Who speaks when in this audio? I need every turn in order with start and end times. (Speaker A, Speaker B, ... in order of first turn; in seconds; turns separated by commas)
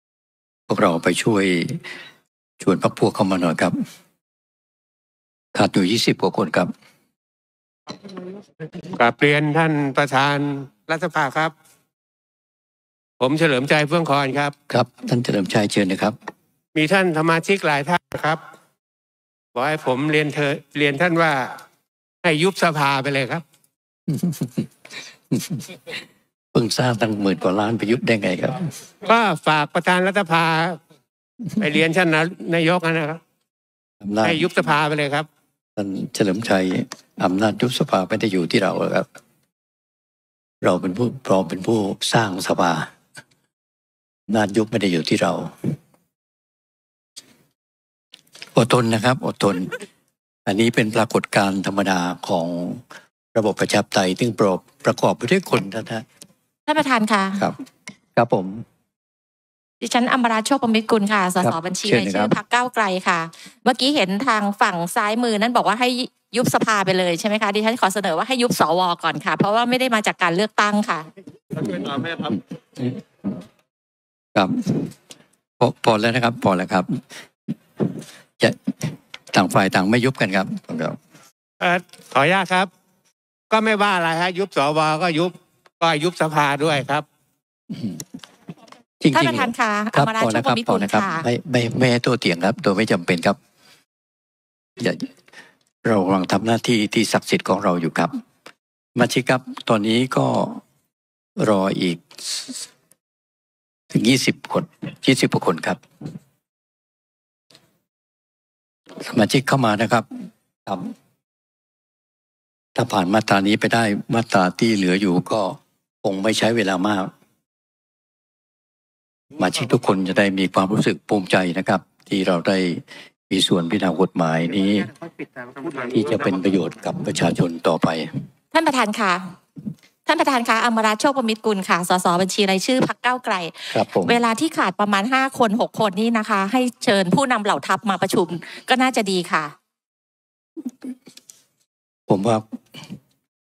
Speaker A: 0.7-1.8, Speaker A: 2.6-3.8, Speaker A: 5.5-6.7, Speaker B: 8.9-11.5, Speaker B: 13.2-14.5, Speaker A: 14.7-16.2, Speaker B: 16.8-18.4, Speaker B: 19.5-21.5, Speaker B: 22.2-23.4, Speaker A: 24.1-24.7, Speaker A: 25.3-25.6, Speaker A: 26.5-28.7, Speaker B: 29.0-30.8, Speaker B: 31.6-33.2, Speaker A: 34.0-34.5, Speaker B: 34.2-35.3, Speaker A: 35.8-39.1, Speaker A: 40.6-42.9, Speaker A: 44.3-45.5, Speaker A: 48.5-49.8, Speaker A: 50.5-52.8, Speaker A: 53.4-56.0, Speaker C: 56.7-57.4, Speaker A: 58.2-58.6, Speaker C: 59.8-71.1, Speaker A: 61.4-62.4, Speaker A: 71.6-73.0, Speaker A: 74.3-75.0, Speaker A: 75.6-77.0, Speaker A: 78.4-81.0, Speaker B: 81.6-82.7, Speaker B: 83.5-87.0, Speaker A: 87.7-88.0, Speaker A: 89.0-93.4, Speaker C: 89.1-91.2, Speaker A: 94.8-95.1, Speaker A: 95.8-98.2, Speaker A: 99.0-100.6, Speaker A: 101.4-102.5, Speaker A: 103.9-105.8, Speaker A: 109.0-110.1, Speaker A: 110.7-110.9, Speaker A: 112.8-117.1, Speaker A: 119.4-124.9, Speaker A: 125.7-128.1, Speaker C: 128.5-129.3, Speaker C: 130.1-139.5, Speaker A: 133.7-134.2, Speaker A: 142.1-142.4